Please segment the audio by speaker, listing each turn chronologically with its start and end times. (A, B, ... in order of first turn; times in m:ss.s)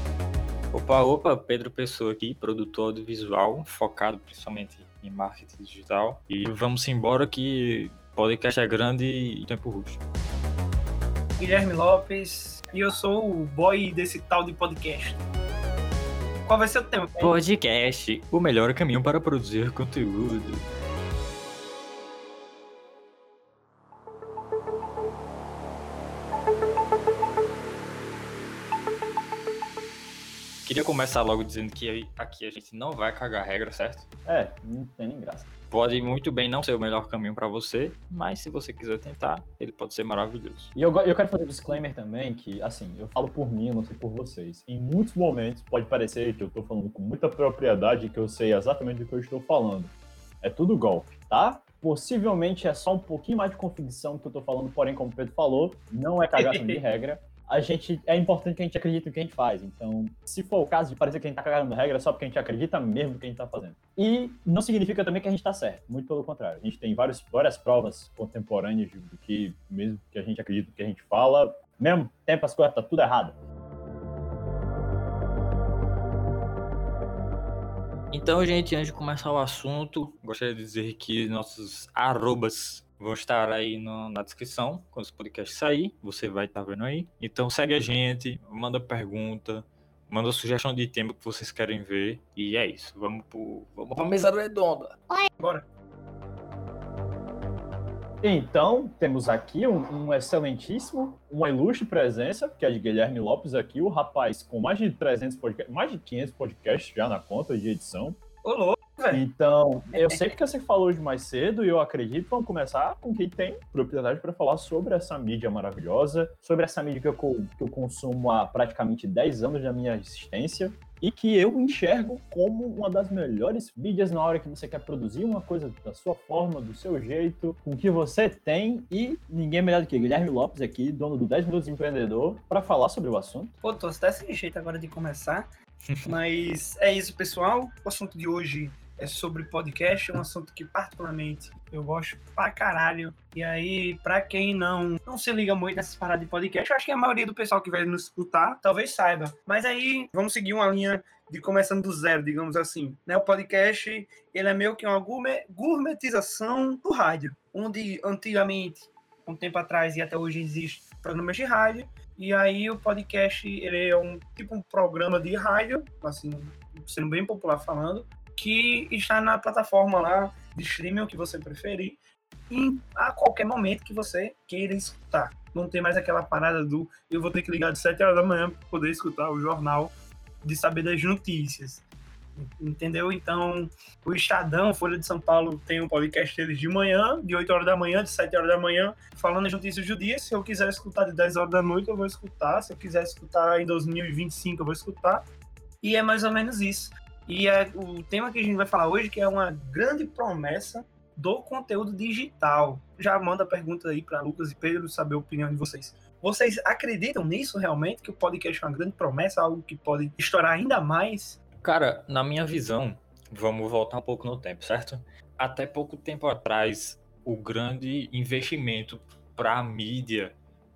0:00.7-0:10.0 A
0:11.4-0:15.2 B
0:16.4-0:17.4 B
0:17.2-0:20.7 A
0:30.6-0:34.1 A
0:34.3-0:35.5 C
0:35.7-0:40.7 A
0:40.8-1:13.4 C
0:56.4-0:56.8 B
1:18.1-1:35.1 A
1:35.4-1:35.6 B
1:38.2-1:48.2 C
1:48.4-1:49.2 B
1:49.1-2:13.5 C
1:50.0-1:50.2 B
2:13.6-2:15.5 B
2:15.8-2:16.1 A
2:16.0-2:52.0 B
2:52.5-2:59.9 B
3:00.4-3:01.8 B
3:02.4-3:15.2 B
3:15.8-3:31.4 B
3:31.6-3:40.4 A